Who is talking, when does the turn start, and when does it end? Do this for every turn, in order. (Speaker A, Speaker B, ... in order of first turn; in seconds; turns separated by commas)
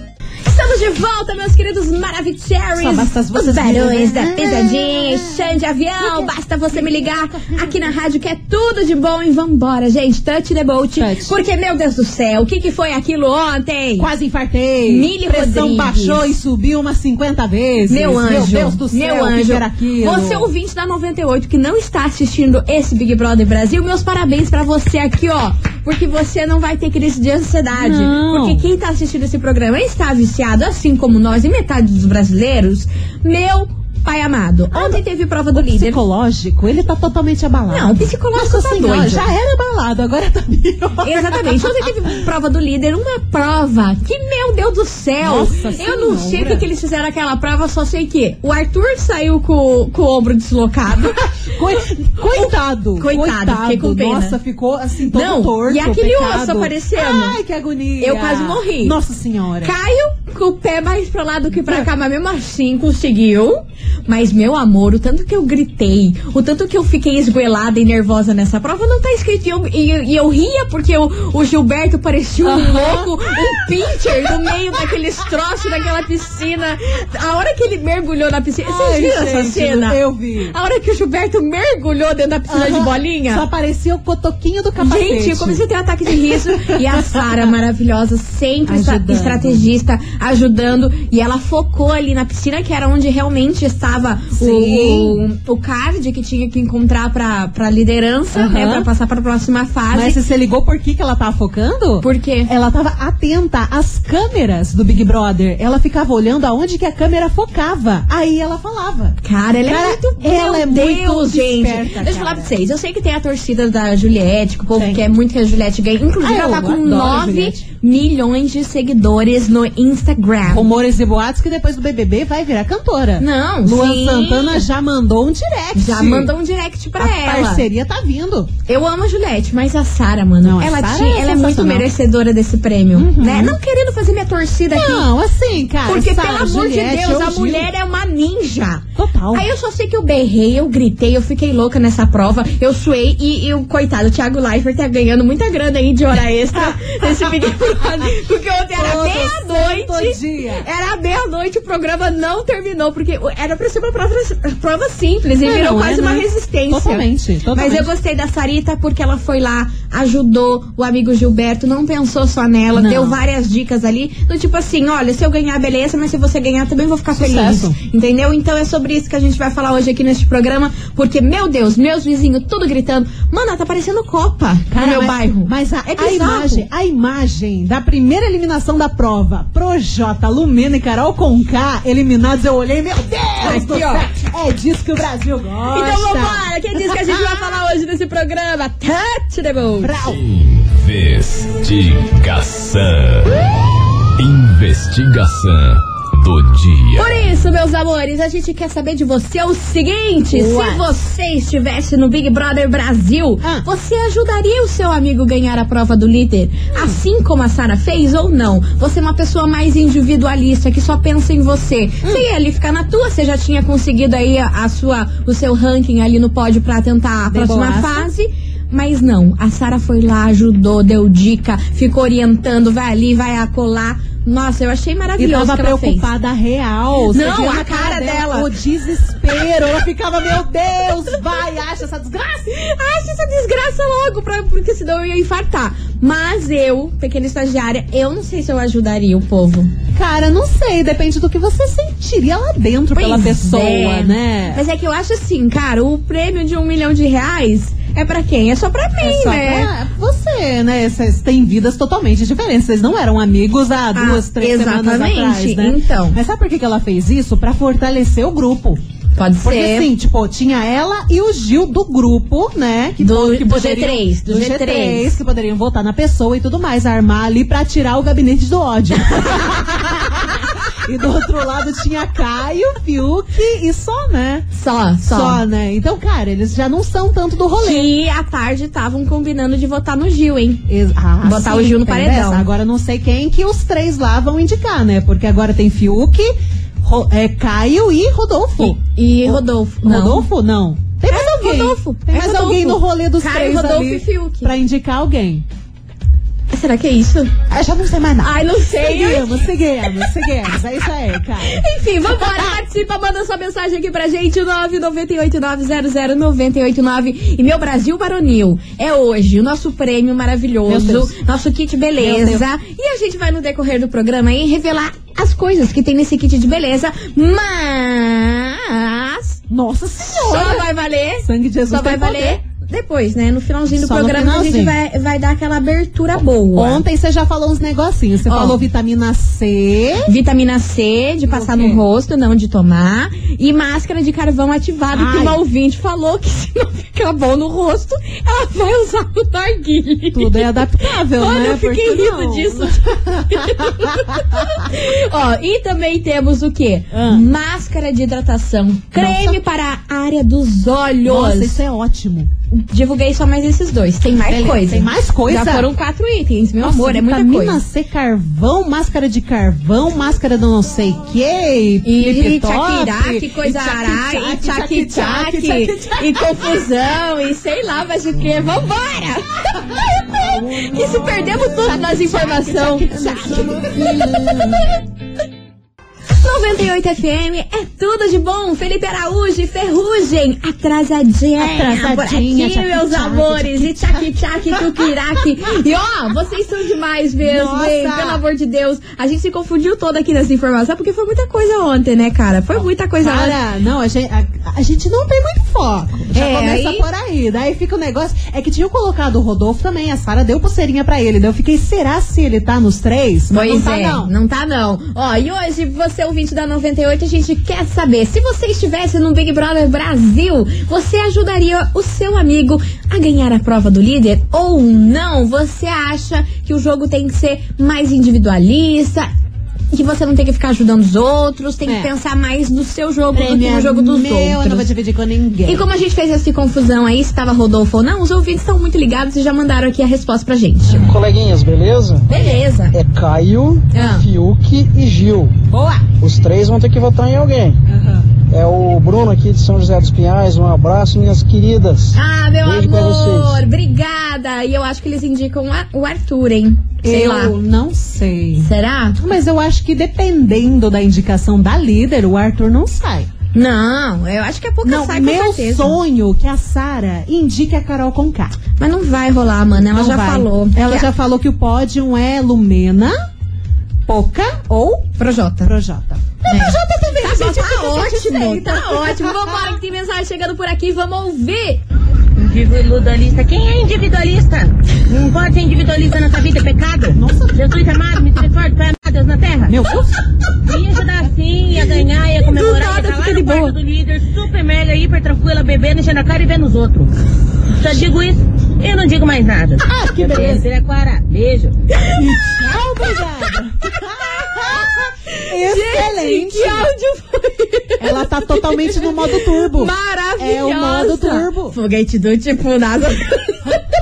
Speaker A: 0.5-14.1, Speaker B: 2.8-7.9, Speaker B: 10.9-11.3, Speaker B: 14.0-20.5, Speaker A: 14.9-16.3, Speaker A: 17.9-36.0, Speaker B: 27.7-28.7, Speaker B: 34.7-41.9, Speaker A: 37.7-39.3, Speaker A: 41.0-51.3, Speaker B: 45.2-46.6, Speaker B: 51.1-59.8, Speaker A: 52.2-54.4, Speaker A: 55.1-57.4, Speaker A: 58.0-59.0, Speaker A: 59.6-80.0, Speaker B: 72.4-73.7, Speaker B: 78.6-80.5, Speaker A: 80.5-83.5, Speaker B: 82.5-87.5, Speaker A: 84.8-100.2, Speaker B: 88.7-89.6, Speaker B: 94.4-95.2, Speaker B: 98.3-98.9, Speaker B: 99.9-112.5, Speaker A: 102.0-102.5, Speaker A: 109.2-120.7, Speaker B: 114.8-115.0, Speaker B: 116.2-117.6, Speaker B: 120.5-126.3, Speaker A: 123.2-124.7, Speaker A: 125.8-127.7, Speaker B: 127.0-128.5, Speaker A: 128.7-135.1, Speaker B: 130.4-131.9, Speaker B: 132.9-133.6, Speaker B: 134.7-137.7, Speaker A: 135.9-176.7, Speaker B: 139.0-139.5, Speaker B: 146.5-148.1, Speaker B: 148.7-150.7, Speaker B: 155.4-157.9, Speaker B: 162.7-163.2, Speaker B: 167.2-167.8, Speaker B: 174.7-187.6, Speaker A: 183.4-184.1, Speaker A: 185.7-189.9, Speaker B: 189.8-190.2, Speaker C: 190.0-193.4, Speaker C: 194.2-197.2, Speaker A: 197.0-226.1, Speaker B: 200.3-200.9, Speaker B: 203.4-203.7, Speaker B: 217.3-218.1, Speaker B: 225.2-232.6, Speaker A: 227.1-228.5, Speaker A: 232.5-239.7, Speaker B: 239.9-244.6, Speaker A: 242.9-249.7, Speaker B: 249.0-258.8, Speaker A: 253.9-256.2, Speaker A: 259.2-259.9, Speaker B: 259.4-274.5, Speaker A: 263.0-265.2, Speaker A: 274.6-275.4, Speaker B: 275.0-277.9, Speaker A: 277.6-280.6, Speaker B: 280.7-295.4, Speaker A: 281.2-282.5, Speaker A: 288.6-290.3, Speaker A: 291.1-294.5, Speaker A: 296.5-297.3, Speaker B: 297.5-302.6, Speaker A: 298.2-299.4, Speaker A: 301.4-319.4, Speaker B: 310.7-311.2, Speaker B: 312.0-312.4, Speaker B: 319.5-320.7, Speaker A: 320.1-326.8, Speaker B: 321.2-322.4, Speaker B: 323.7-324.8, Speaker B: 326.6-330.1, Speaker A: 328.3-328.6, Speaker A: 330.1-351.6, Speaker B: 331.3-331.8, Speaker B: 334.9-335.4, Speaker B: 340.1-344.5, Speaker B: 346.9-347.3, Speaker B: 348.9-349.4, Speaker B: 351.0-352.3, Speaker A: 352.5-357.6, Speaker B: 354.3-355.7, Speaker B: 356.6-366.5, Speaker A: 361.8-374.0, Speaker B: 369.7-374.6, Speaker A: 376.2-393.4, Speaker B: 381.4-385.2, Speaker B: 387.2-388.2, Speaker B: 393.0-404.1, Speaker A: 396.1-396.9, Speaker A: 403.3-419.1, Speaker A: 419.7-424.7, Speaker B: 421.7-421.9, Speaker B: 423.1-425.7, Speaker A: 425.5-430.9, Speaker D: 430.8-432.1, Speaker A: 432.1-432.8, Speaker D: 432.7-435.4, Speaker A: 433.7-434.1, Speaker B: 435.5-435.8, Speaker D: 436.0-437.6, Speaker B: 437.7-438.1, Speaker D: 438.3-443.4, Speaker A: 441.9-447.4, Speaker B: 446.8-453.1, Speaker A: 448.4-449.0, Speaker A: 453.3-455.8, Speaker B: 454.6-458.4, Speaker A: 458.6-460.9, Speaker B: 459.6-463.0, Speaker B: 463.9-469.6, Speaker A: 465.0-465.5, Speaker A: 466.3-471.6, Speaker E: 472.2-479.6, Speaker B: 476.9-477.4, Speaker B: 479.5-480.0, Speaker E: 480.4-486.9, Speaker A: 482.1-483.6, Speaker E: 487.5-491.5, Speaker B: 489.7-490.4, Speaker B: 491.9-496.7, Speaker A: 494.2-503.6, Speaker B: 497.8-501.6